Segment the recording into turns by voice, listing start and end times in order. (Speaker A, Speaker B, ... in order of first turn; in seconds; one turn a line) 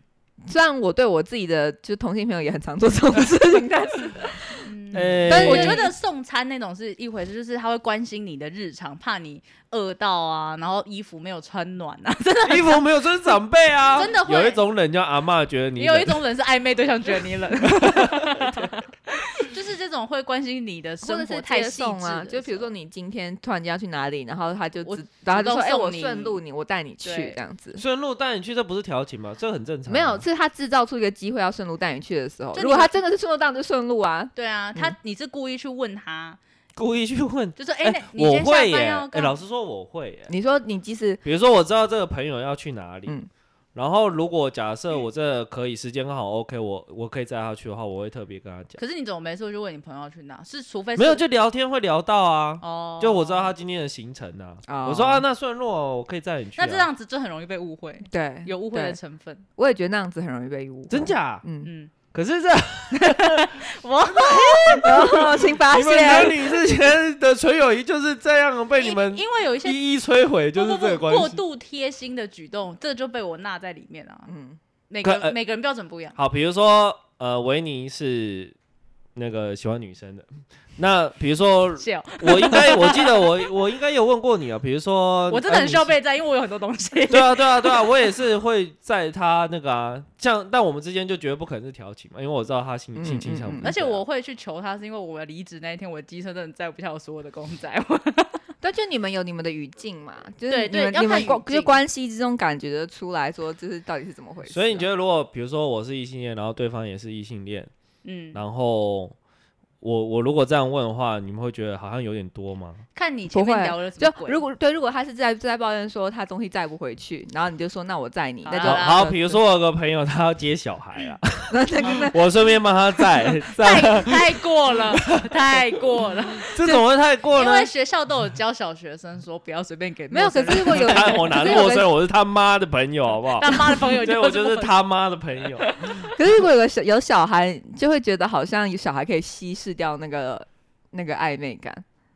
Speaker A: 0.5-4.7
Speaker B: 4.6-12.8
Speaker C: 4.9-5.8
Speaker A: 5.3-5.9
Speaker C: 12.5-16.2
Speaker B: 13.9-14.6
Speaker B: 15.8-22.7
Speaker C: 17.8-18.2
Speaker A: 21.0-27.8
Speaker B: 24.8-26.4
Speaker B: 27.0-27.4
Speaker C: 27.8-30.2
Speaker A: 29.9-34.9
Speaker B: 32.5-32.9
Speaker B: 34.4-36.4
Speaker C: 36.8-40.3
Speaker B: 37.6-39.3
Speaker A: 40.3-41.2
Speaker C: 41.2-43.1
Speaker C: 43.8-48.8
Speaker B: 48.8-51.2
Speaker C: 51.0-56.9
Speaker B: 52.6-53.5
Speaker A: 54.7-55.2
Speaker B: 56.6-59.4
Speaker A: 58.1-59.0
Speaker A: 59.6-61.7
Speaker C: 60.9-61.4
Speaker B: 61.6-61.9
Speaker C: 62.1-63.6
Speaker B: 63.0-64.9
Speaker C: 64.1-71.4
Speaker A: 64.8-66.6
Speaker B: 68.8-69.8
Speaker B: 70.5-74.3
Speaker A: 74.3-74.6
Speaker B: 74.9-76.2
Speaker C: 75.0-75.4
Speaker C: 76.2-78.5
Speaker C: 79.2-80.3
Speaker C: 80.8-85.9
Speaker B: 81.8-83.3
Speaker B: 85.3-87.8
Speaker C: 87.1-94.0
Speaker A: 93.0-93.7
Speaker B: 93.6-98.4
Speaker A: 98.6-104.8
Speaker B: 100.5-101.8
Speaker C: 104.5-107.7
Speaker B: 108.0-108.4
Speaker C: 108.3-109.1
Speaker C: 109.8-112.8
Speaker B: 112.9-114.4
Speaker A: 113.3-119.4
Speaker B: 118.4-119.2
Speaker C: 118.6-124.2
Speaker A: 121.5-122.2
Speaker B: 123.6-126.5
Speaker C: 125.0-125.3
Speaker C: 126.5-127.7
Speaker B: 127.3-131.7
Speaker A: 130.1-131.9
Speaker C: 130.6-135.9
Speaker B: 133.3-134.8
Speaker B: 135.7-136.0
Speaker A: 136.2-141.8